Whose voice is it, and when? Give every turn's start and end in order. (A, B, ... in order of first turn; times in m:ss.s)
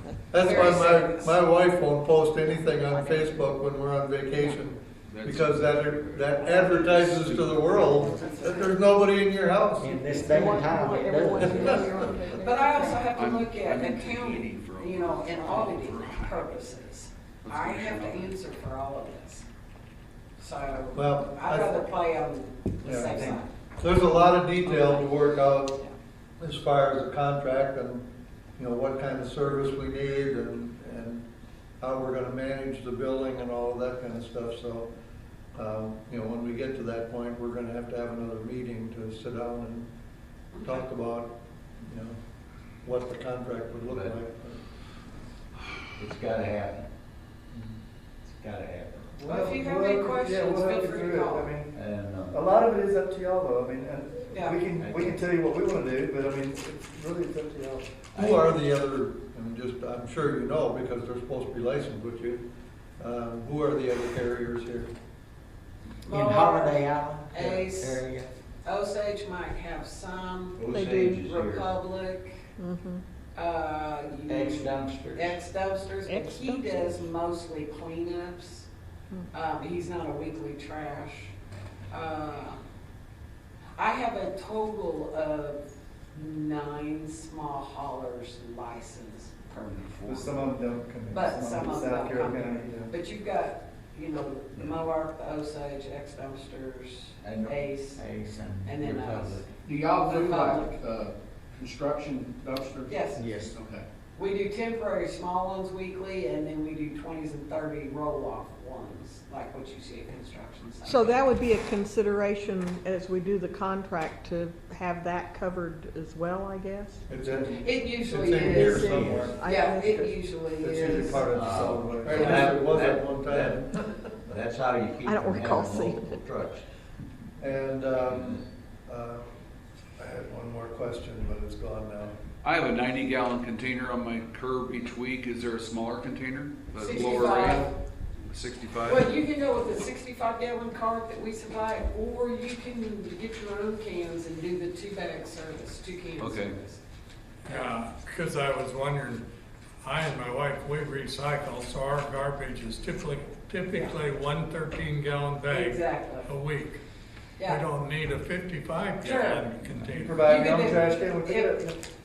0:00.3-0:10.6 A
0:00.3-0:01.4 B
0:05.1-0:07.6 C
0:07.7-0:08.7 B
0:09.8-0:11.9 D
0:10.2-0:13.1 E
0:11.5-0:12.1 A
0:12.3-0:19.4 B
0:13.1-0:16.4 C
0:17.4-0:18.3 C
0:20.4-0:23.5 B
0:20.9-0:21.8 A
0:22.8-0:25.8 A
0:24.6-0:25.1 B
0:26.4-0:28.0 A
0:28.6-0:31.2 A
0:31.8-0:34.9 A
0:35.5-0:39.9 A
0:40.5-0:40.8 B
0:40.6-0:42.2 A
0:42.8-0:44.6 A
0:43.9-0:44.2 F
0:46.0-0:46.9 F
0:48.3-0:49.1 F
0:49.1-0:58.0 G
0:49.2-0:51.5 B
0:51.7-0:52.4 F
0:54.3-0:54.6 B
0:54.7-0:55.2 F
0:58.1-0:58.6 F
0:58.1-1:02.4 A
1:03.0-1:04.9 A
1:06.0-1:08.0 B
1:06.1-1:08.3 D
1:08.6-1:12.3 B
1:10.6-1:11.7 F
1:10.7-1:11.2 E
1:12.6-1:13.0 E
1:13.3-1:18.7 B
1:14.3-1:15.4 D
1:16.1-1:16.9 E
1:19.3-1:21.3 B
1:21.9-1:22.6 B
1:23.8-1:25.6 B
1:26.1-1:30.0 B
1:29.5-1:30.3 C
1:30.1-1:32.9 G
1:31.1-1:38.0 B
1:37.2-1:37.6 F
1:38.0-1:39.4 D
1:38.6-1:39.4 B
1:38.8-1:39.4 F
1:39.6-1:43.8 C
1:40.0-1:40.8 B
1:42.9-1:43.2 B
1:43.1-1:43.5 D
1:44.1-1:51.2 B
1:50.8-1:57.0 E
1:57.1-1:59.4 A
1:57.2-2:01.3 B
1:58.4-2:00.2 E
1:58.9-1:59.2 D
2:00.6-2:03.7 A
2:01.2-2:03.6 F
2:02.1-2:02.4 B
2:04.3-2:06.6 F
2:05.0-2:06.3 E
2:07.4-2:09.2 A
2:10.0-2:12.1 A
2:12.4-2:17.7 C
2:16.7-2:17.7 B
2:18.3-2:19.1 C
2:18.8-2:26.8 B
2:26.2-2:26.6 C
2:27.4-2:29.2 H
2:29.8-2:36.8 H
2:33.7-2:34.0 B
2:35.5-2:36.3 B
2:37.4-2:40.9 H
2:39.0-2:39.4 B
2:39.7-2:41.7 G
2:40.2-2:41.6 B